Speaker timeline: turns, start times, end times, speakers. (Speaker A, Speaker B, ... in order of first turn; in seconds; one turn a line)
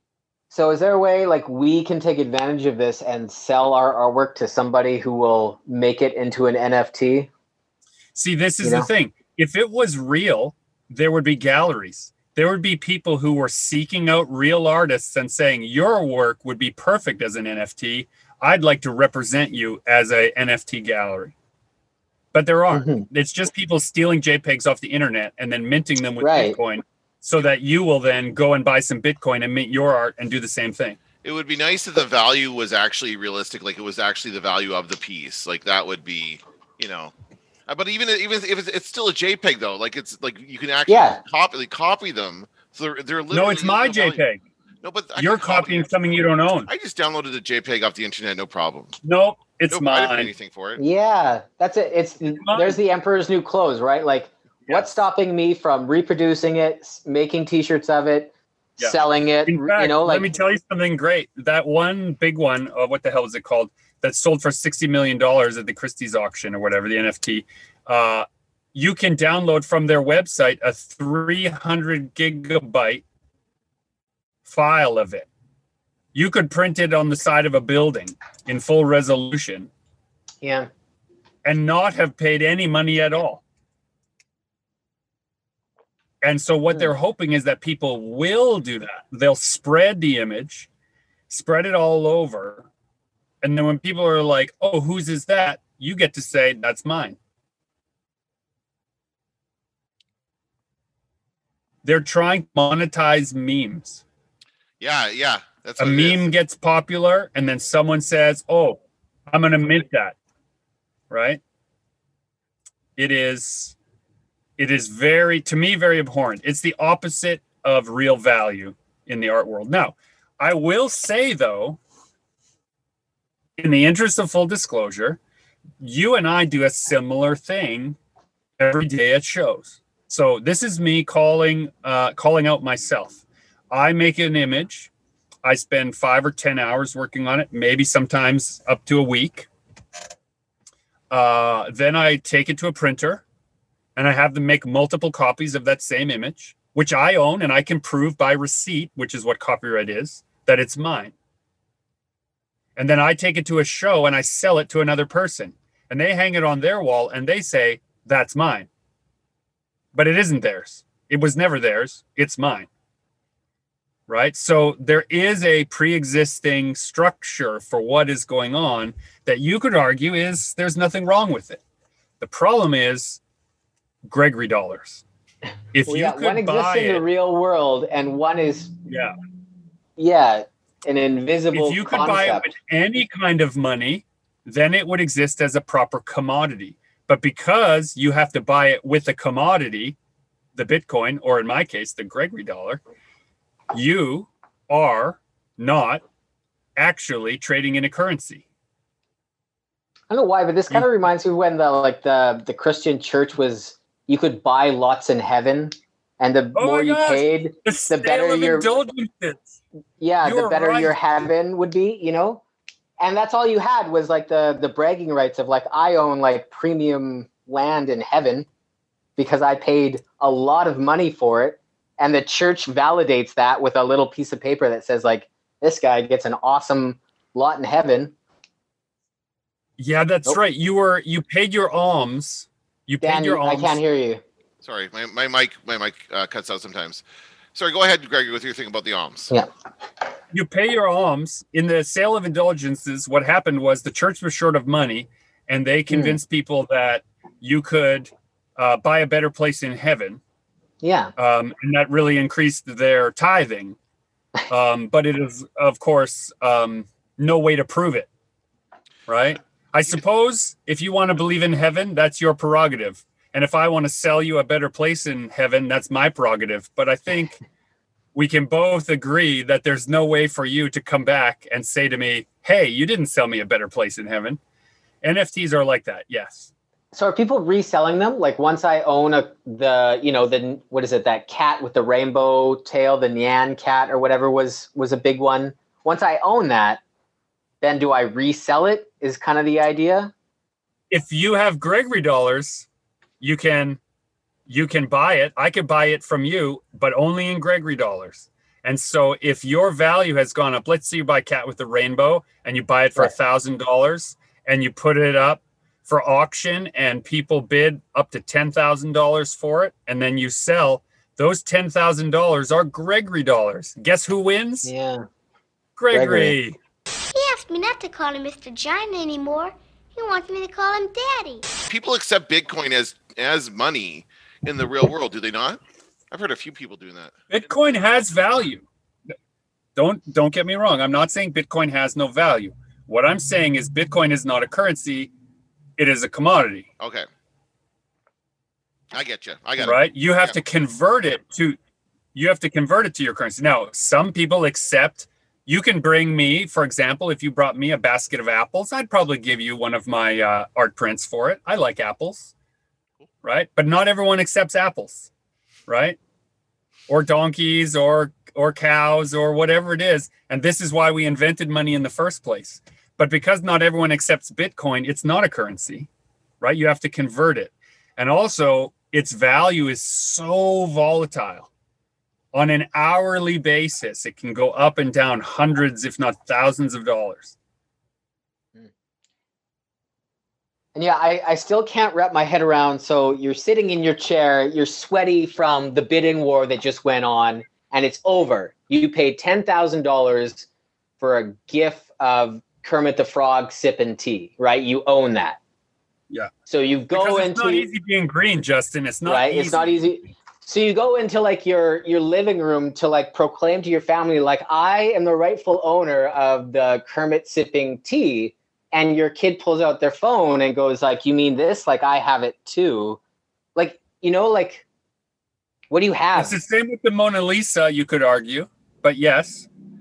Speaker A: 0.5-7.3
Speaker B: 8.1-21.3
Speaker A: 8.6-8.9
Speaker B: 22.3-31.0
Speaker A: 22.7-23.0
Speaker A: 26.2-26.6
Speaker C: 31.2-37.1
Speaker C: 37.7-44.2
Speaker A: 40.9-41.2
Speaker B: 43.3-44.4
Speaker C: 44.8-45.9
Speaker B: 45.2-46.7
Speaker C: 46.7-49.0
Speaker B: 49.0-50.3
Speaker C: 49.7-50.8
Speaker A: 50.8-60.3
Speaker B: 52.4-52.8
Speaker B: 58.8-73.0
Speaker B: 74.5-75.3
Speaker B: 76.1-79.7
Speaker A: 80.4-80.7
Speaker B: 81.4-83.4
Speaker B: 86.2-90.7
Speaker B: 91.3-92.7
Speaker B: 93.4-97.2
Speaker B: 101.8-104.0
Speaker C: 104.8-106.2
Speaker B: 105.8-110.2
Speaker B: 111.1-111.4
Speaker B: 113.0-113.8
Speaker B: 114.6-121.8
Speaker B: 123.6-125.2
Speaker B: 125.8-128.0
Speaker B: 128.6-133.2
Speaker B: 133.7-134.9
Speaker B: 135.4-139.5
Speaker B: 141.1-143.2
Speaker B: 143.9-151.1
Speaker B: 152.8-158.7
Speaker B: 159.9-162.7
Speaker B: 164.1-171.6
Speaker B: 172.2-173.2
Speaker B: 174.1-175.0
Speaker B: 175.7-177.0
Speaker A: 175.8-178.7
Speaker B: 178.9-179.1
Speaker A: 180.0-182.5
Speaker B: 181.5-190.0
Speaker B: 190.5-192.8
Speaker B: 193.7-196.0
Speaker B: 196.8-198.4
Speaker A: 200.1-208.7
Speaker B: 206.5-209.6
Speaker A: 210.0-212.4
Speaker B: 210.2-211.0
Speaker A: 213.0-218.5
Speaker A: 219.2-228.1
Speaker B: 229.8-233.8
Speaker A: 233.0-234.2
Speaker C: 234.6-237.0
Speaker C: 237.5-239.3
Speaker B: 240.3-250.2
Speaker A: 245.9-246.2
Speaker A: 250.8-251.1
Speaker B: 251.2-253.8
Speaker B: 254.5-258.1
Speaker B: 259.1-267.4
Speaker B: 268.1-274.4
Speaker B: 275.0-276.5
Speaker A: 276.9-286.8
Speaker A: 287.6-290.1
Speaker B: 290.9-292.7
Speaker B: 293.2-293.8
Speaker B: 294.5-314.7
Speaker A: 314.6-315.1
Speaker B: 315.8-316.6
Speaker A: 315.9-316.3
Speaker D: 317.1-321.5
Speaker C: 321.7-325.6
Speaker C: 326.1-327.1
Speaker B: 327.3-328.7
Speaker B: 329.8-335.1
Speaker B: 335.8-336.7
Speaker C: 336.8-337.1
Speaker C: 338.9-340.3
Speaker B: 339.6-341.6
Speaker B: 342.1-352.3
Speaker B: 353.2-355.1
Speaker B: 355.7-356.0
Speaker B: 356.9-365.9
Speaker B: 366.4-371.5
Speaker B: 372.3-377.3
Speaker A: 380.7-390.5
Speaker A: 391.0-395.4
Speaker A: 396.4-397.7
Speaker B: 396.9-399.8
Speaker A: 399.0-413.0
Speaker A: 413.6-414.6
Speaker A: 415.7-416.4
Speaker B: 416.1-419.5